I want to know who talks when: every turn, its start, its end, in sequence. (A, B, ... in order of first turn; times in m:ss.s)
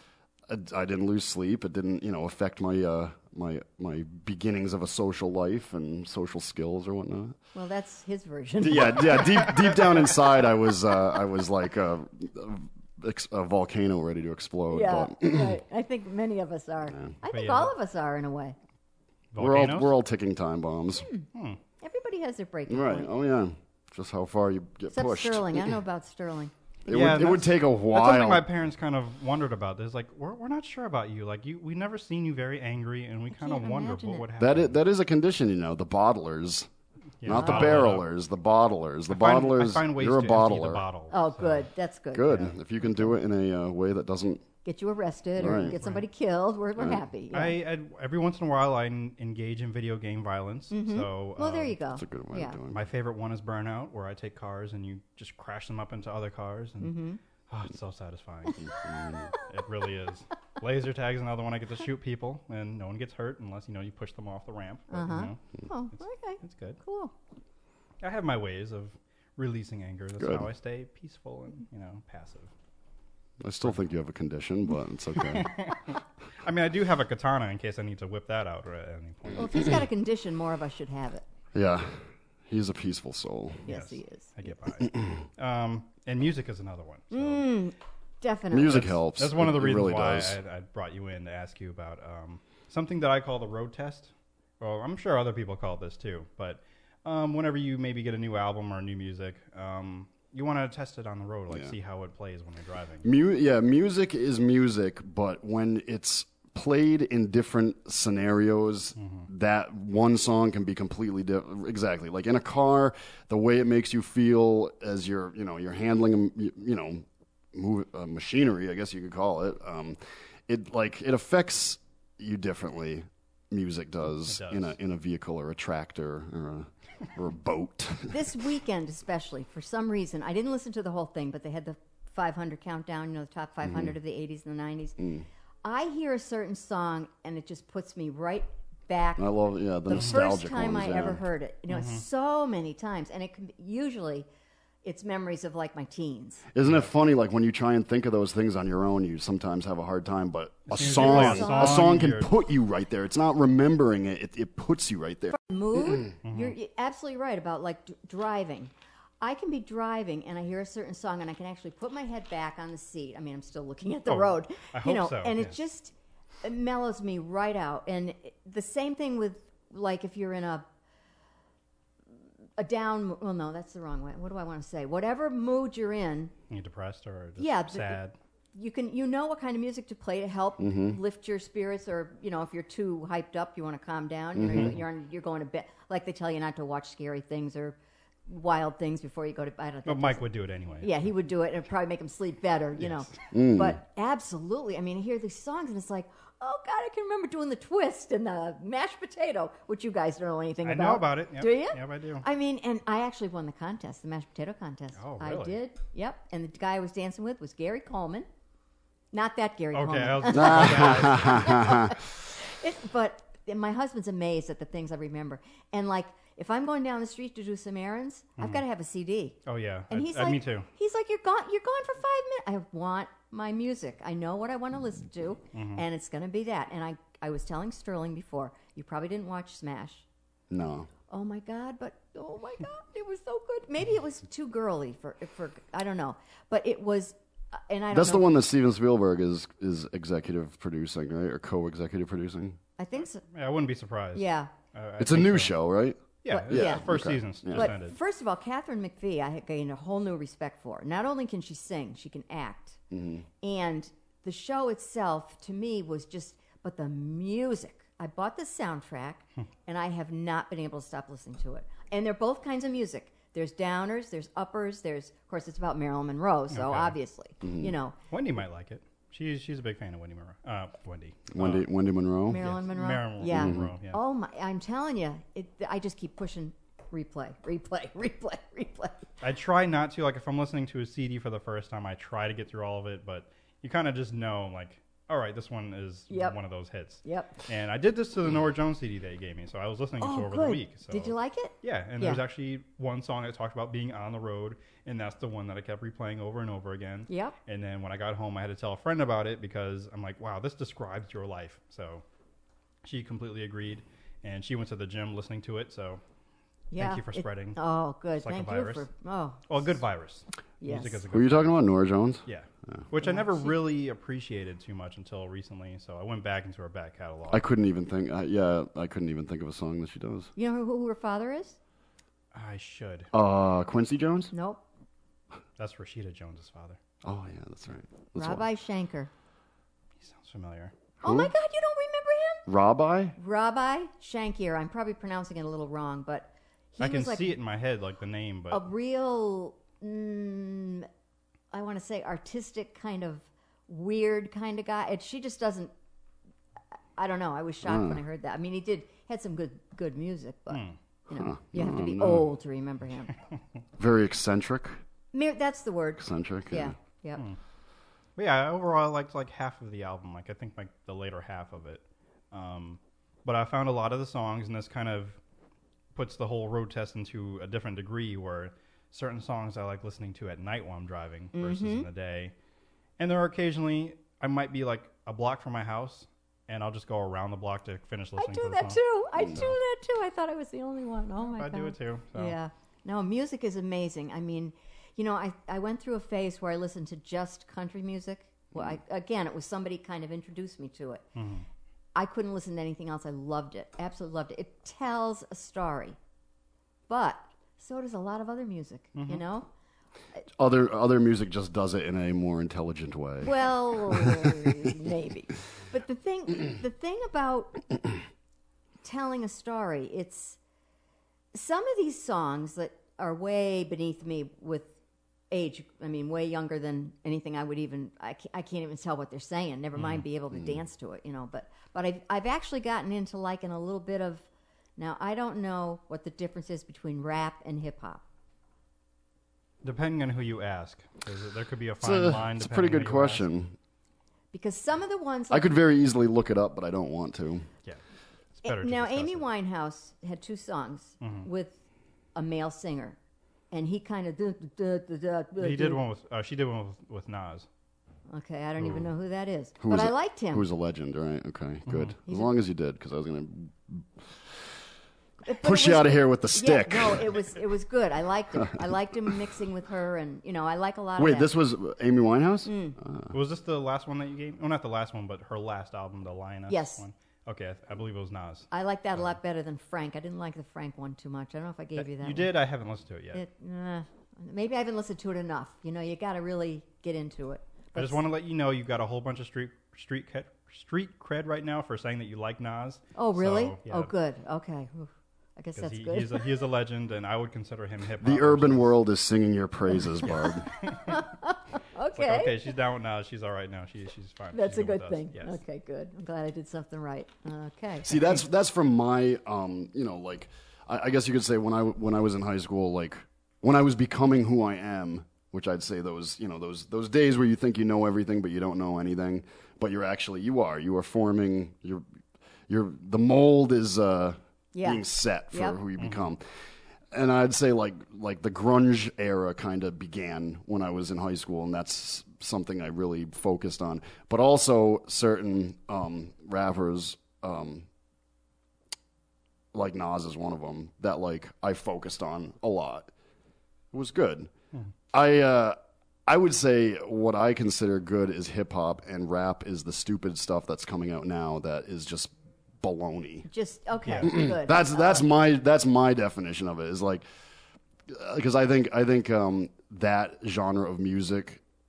0:00.5-0:07.4 A
0:07.6-0:09.5 B
0:08.6-0:15.6 A
0:14.7-0:18.6 B
0:16.9-0:17.1 A
0:17.3-0:17.8 C
0:19.3-0:20.0 C
0:19.4-0:21.1 A
0:21.3-0:21.6 C
0:21.8-0:23.1 B
0:22.7-0:25.8 A
0:24.9-0:26.5 B
0:26.9-0:28.4 A
0:26.9-0:34.8 C
0:33.3-0:34.3 B
0:34.4-0:36.7 A
0:37.2-0:38.1 C
0:37.2-0:40.9 A
0:37.3-0:37.8 B
0:39.1-0:41.7 C
0:41.1-0:42.5 B
0:42.1-0:44.5 A
0:42.3-0:42.6 C
0:44.6-0:47.6 B
0:45.4-0:45.8 A
0:45.7-0:46.1 C
0:47.3-0:51.8 C
0:50.7-0:52.6 B
0:51.9-0:52.9 A
0:52.7-0:57.0 C
0:56.8-0:57.2 B
0:57.5-0:58.6 C
0:58.6-0:59.3 A
0:59.3-1:05.4 C
1:04.9-1:07.1 B
1:06.4-1:06.8 C
1:08.0-1:12.5 C
1:10.2-1:10.5 A
1:13.4-1:15.5 A
1:15.2-1:19.8 C
1:19.4-1:21.2 B
1:21.5-1:23.7 A
1:23.6-1:24.4 B
1:23.7-1:27.4 C
1:27.1-1:28.8 B
1:28.5-1:30.4 A
1:28.7-1:43.1 C
1:43.0-2:08.3 A
1:49.0-1:49.3 C
2:04.1-2:04.8 C
2:08.1-2:15.0 B
2:13.6-2:14.0 A
2:15.0-2:15.3 A
2:15.6-2:19.4 B
2:19.2-2:21.2 A
2:19.9-2:24.3 B
2:21.7-2:22.0 C
2:24.8-2:26.5 B
2:26.5-2:35.4 A
2:26.6-2:26.9 C
2:30.7-2:32.3 C
2:30.8-2:32.0 B
2:35.4-2:50.6 B
2:36.2-2:36.6 C
2:44.1-2:45.6 C
2:52.6-2:56.3 B
2:56.5-2:58.2 C
2:57.4-2:58.0 B
2:58.5-3:10.2 B
3:00.6-3:01.0 A
3:04.4-3:04.8 A
3:04.5-3:04.8 C
3:09.9-3:10.9 C
3:10.8-3:28.3 B
3:12.8-3:13.1 C
3:13.3-3:13.8 A
3:20.6-3:22.3 C
3:25.0-3:25.6 C
3:29.1-3:50.0 B
3:29.7-3:31.7 C
3:30.3-3:32.0 A
3:39.5-3:40.7 C
3:45.5-3:45.8 C
3:50.5-3:50.9 A
3:51.1-3:58.3 B
3:57.9-4:02.6 A
4:02.8-4:03.2 B
4:03.3-4:05.6 C
4:04.2-4:04.5 B
4:05.0-4:07.7 A
4:06.2-4:08.0 C
4:06.3-4:07.0 B
4:07.5-4:12.8 B
4:12.9-4:13.3 A
4:13.4-4:28.0 B
4:26.5-4:27.0 C
4:27.4-4:27.7 A
4:28.1-4:31.7 C
4:31.3-4:32.4 A
4:32.3-4:39.0 B
4:32.3-4:34.0 C
4:33.3-4:33.7 A
4:39.2-5:02.0 C
4:46.1-4:46.4 B
4:47.0-4:47.4 B
4:50.0-4:52.2 B
4:57.1-4:57.4 B
5:02.8-5:06.0 C
5:06.7-5:09.7 B
5:06.8-5:07.6 C
5:08.2-5:08.9 C
5:09.5-5:11.6 C
5:10.6-5:11.0 B
5:11.1-5:12.8 A
5:12.2-5:17.4 C
5:13.0-5:13.5 B
5:17.3-5:20.3 A
5:20.4-5:21.6 B
5:22.3-5:23.1 C
5:23.1-5:24.3 A
5:24.3-5:24.6 B
5:25.6-5:26.8 C
5:27.0-5:28.5 A
5:28.2-5:29.1 B
5:30.0-5:30.7 C
5:31.0-5:32.4 B
5:31.0-5:31.3 A
5:32.5-5:33.2 A
5:33.2-5:37.4 B
5:36.8-5:38.6 C
5:38.5-5:40.9 B
5:41.5-5:45.7 B
5:47.0-5:53.1 B
5:47.6-5:48.0 A
5:50.5-5:50.8 C
5:51.1-5:52.3 A
5:53.8-5:54.8 A
5:55.1-5:57.3 B
5:56.0-5:56.8 A
5:58.2-6:05.2 C
6:06.0-6:12.3 C
6:11.3-6:11.9 B
6:13.0-6:19.6 C
6:18.2-6:31.1 B
6:21.3-6:22.4 C
6:31.2-6:31.4 C
6:32.0-6:36.0 B
6:36.9-6:39.5 B
6:39.0-6:39.2 C
6:40.4-6:44.6 A
6:43.2-6:47.6 B
6:48.8-6:50.4 B
6:51.3-6:54.8 B
6:55.3-7:08.0 B
6:59.8-7:00.1 C
7:00.3-7:00.6 A
7:09.6-7:13.3 C
7:11.8-7:13.6 A
7:14.3-7:15.5 B
7:15.3-7:17.5 A
7:18.4-7:19.3 C
7:18.4-7:21.6 B
7:21.0-7:21.3 C
7:22.2-7:23.0 B
7:23.5-7:25.8 B
7:25.4-7:27.5 C
7:28.1-7:30.5 B
7:28.6-7:28.8 C
7:29.6-7:34.1 A
7:31.7-7:32.0 C
7:32.1-7:32.3 B
7:35.2-7:41.3 B
7:35.4-7:37.1 A
7:38.4-7:39.1 A
7:41.0-7:43.1 A
7:42.5-7:42.8 B
7:43.1-7:49.1 C
7:46.5-7:46.8 B
7:48.5-7:52.3 B
7:51.8-7:53.2 C
7:53.1-7:58.0 B
7:57.8-8:03.9 C
8:03.0-8:06.4 B
8:05.6-8:08.7 C
8:08.0-8:10.5 A
8:10.0-8:11.0 C
8:10.9-8:12.5 B
8:11.9-8:15.4 C
8:14.3-8:18.0 B
8:17.8-8:31.8 A
8:32.5-8:36.2 A
8:34.5-8:35.6 B
8:35.8-8:36.0 C
8:36.9-8:47.7 A
8:49.5-8:52.9 A
8:53.7-8:54.3 A
8:54.9-9:03.3 A
9:03.3-9:05.1 B
9:03.8-9:04.1 C
9:04.0-9:07.0 A
9:07.9-9:11.4 A